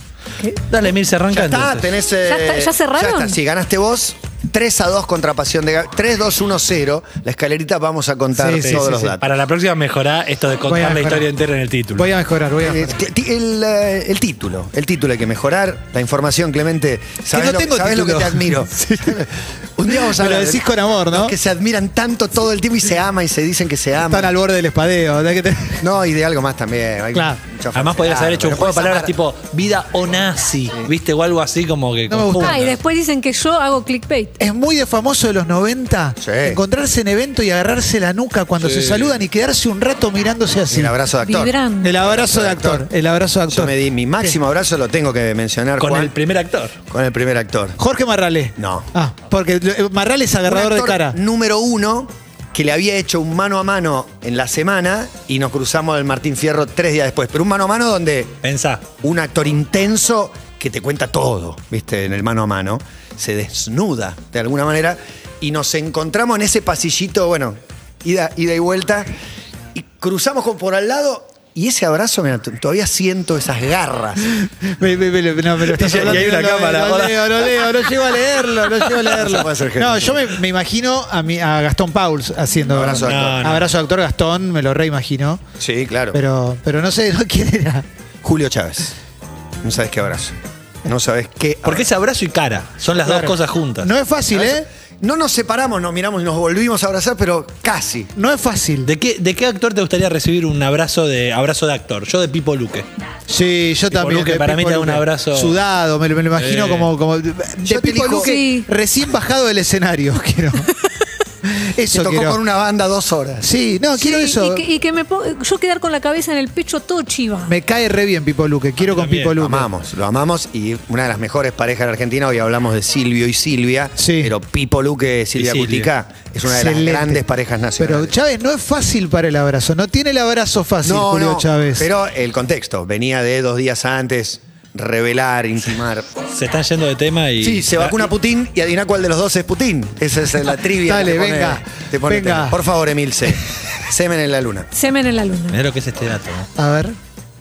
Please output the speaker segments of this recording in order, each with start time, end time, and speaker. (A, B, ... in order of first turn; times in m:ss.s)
0:00.7-0:01.9 A
0:01.3-0:09.2 B
0:02.2-0:03.4 C
0:08.3-0:09.1 D
0:08.6-0:12.1 A
0:10.7-0:11.2 D
0:12.0-0:13.0 D
0:12.6-0:24.3 B
0:17.3-0:19.2 D
0:19.9-0:21.3 D
0:24.0-0:25.8 D
0:25.8-0:29.1 B
0:27.7-0:32.8 A
0:32.1-0:32.6 D
0:32.4-0:34.4 C
0:34.4-0:40.9 D
0:36.2-0:36.6 B
0:38.6-0:39.2 A
0:40.7-0:42.8 B
0:41.2-0:41.9 C
0:41.8-0:44.4 D
0:43.5-0:46.1 B
0:45.8-0:46.8 A
0:46.9-0:47.8 B
0:47.8-0:51.2 D
0:48.6-0:48.9 B
0:50.4-0:58.4 B
0:58.4-0:58.8 A
0:59.0-1:09.1 B
1:09.7-1:14.2 B
1:14.4-1:25.4 D
1:15.6-1:17.7 A
1:15.8-1:16.4 B
1:19.0-1:19.3 A
1:19.1-1:20.3 B
1:22.7-1:23.5 B
1:22.9-1:23.7 A
1:25.6-1:26.2 B
1:26.1-1:27.8 D
1:28.2-1:28.9 B
1:29.6-1:31.9 B
1:31.6-1:33.9 A
1:33.0-1:34.6 D
1:34.3-1:38.1 B
1:38.2-1:38.9 D
1:38.8-1:42.9 A
1:43.3-1:50.7 D
1:43.9-1:45.6 A
1:46.3-1:46.9 A
1:47.6-1:48.3 B
1:48.2-1:48.7 C
1:51.4-1:52.4 D
1:51.9-1:53.5 B
1:53.4-1:54.6 D
1:53.9-1:57.5 C
1:57.5-1:59.7 D
1:58.8-1:59.4 A
1:59.4-2:08.1 B
2:04.0-2:04.3 D
2:05.4-2:05.9 A
2:06.5-2:07.2 D
2:07.8-2:11.9 D
2:10.8-2:16.0 B
2:16.3-2:18.1 A
2:17.4-2:24.7 B
2:20.8-2:22.6 D
2:24.7-2:25.6 C
2:25.5-2:26.5 A
2:26.6-2:27.0 D